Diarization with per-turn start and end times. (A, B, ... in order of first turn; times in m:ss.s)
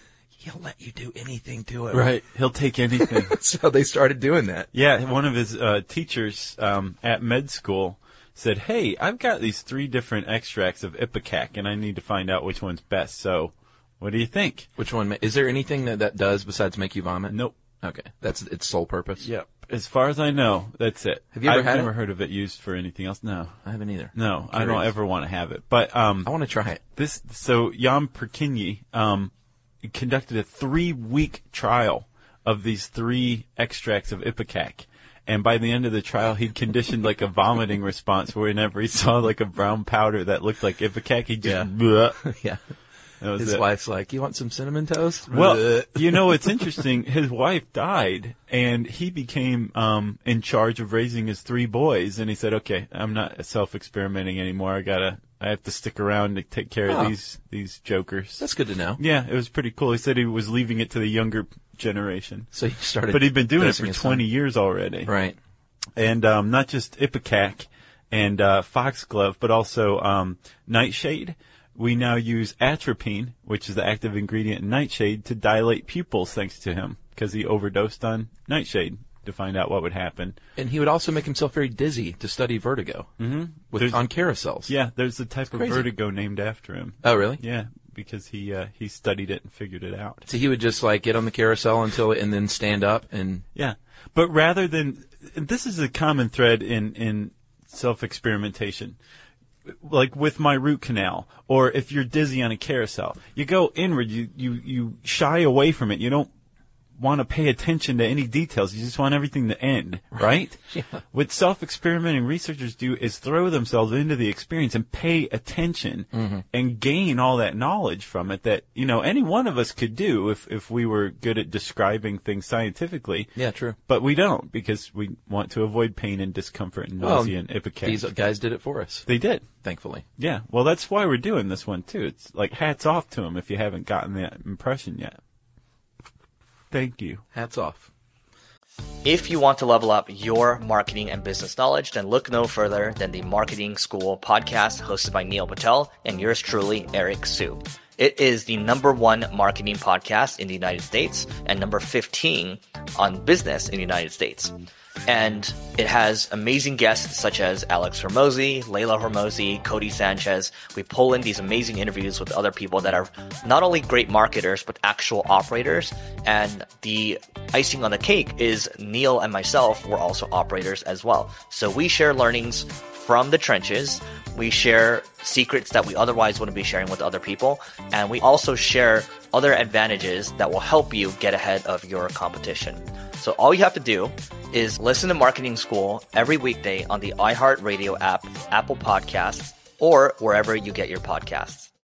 0:00.4-0:02.2 A
0:01.9-0:03.4 B
0:03.0-0:04.7 A
0:04.7-0:14.7 B
0:14.8-0:19.3 A
0:19.2-0:23.6 B
0:21.3-0:21.9 A
0:23.6-0:24.9 A
0:24.2-0:29.3 B
0:26.2-0:26.8 A
0:29.8-0:42.2 B
0:41.4-0:41.7 A
0:42.2-0:42.6 A
0:43.2-0:43.6 B
0:43.4-0:46.6 A
0:45.3-0:58.4 B
0:56.9-0:57.1 A
0:58.4-0:59.0 A
0:59.0-1:02.5 B
1:02.5-1:04.2 A
1:03.1-1:05.1 B
1:05.1-1:05.4 A
1:06.0-1:20.4 B
1:20.6-1:23.1 A
1:23.2-1:24.0 B
1:23.7-1:24.7 A
1:24.7-1:30.3 B
1:25.5-1:25.9 A
1:27.0-1:27.4 A
1:30.3-1:33.4 A
1:33.6-1:39.0 B
1:39.7-1:46.3 B
1:47.0-2:03.3 B
1:50.2-1:51.0 A
1:56.1-1:56.4 A
2:03.4-2:03.8 A
2:03.9-2:08.1 B
2:07.0-2:09.1 A
2:09.1-2:09.5 B
2:09.6-2:10.0 A
2:10.2-2:15.2 B
2:16.7-2:17.2 B
2:17.3-2:17.9 A
2:19.0-2:34.6 C
2:35.1-3:11.7 C